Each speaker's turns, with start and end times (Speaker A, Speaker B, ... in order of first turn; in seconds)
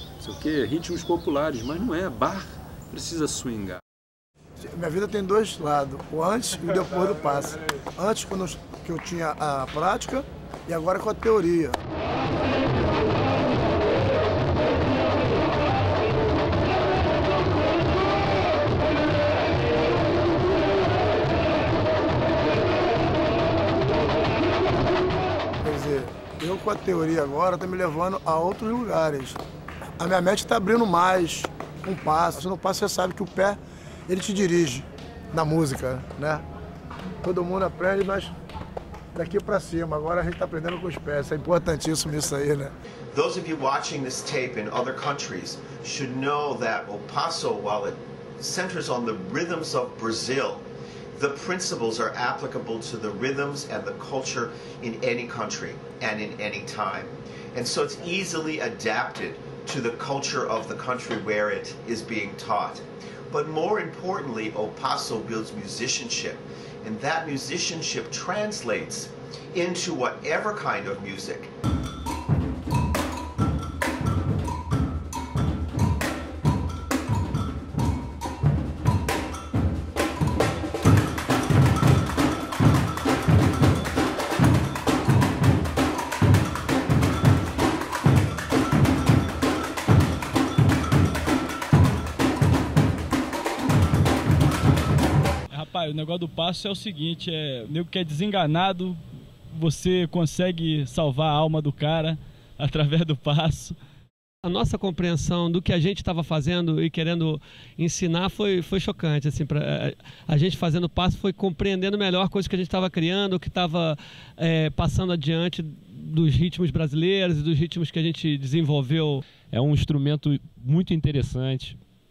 Speaker A: 0.2-3.8
Speaker B: 4.7-11.8, 25.6-29.4, 30.0-36.5, 37.2-38.3, 39.1-42.7
Speaker C: 43.1-71.5
Speaker D: 95.5-99.0, 99.5-103.8
Speaker E: 104.4-119.2
Speaker F: 119.5-121.8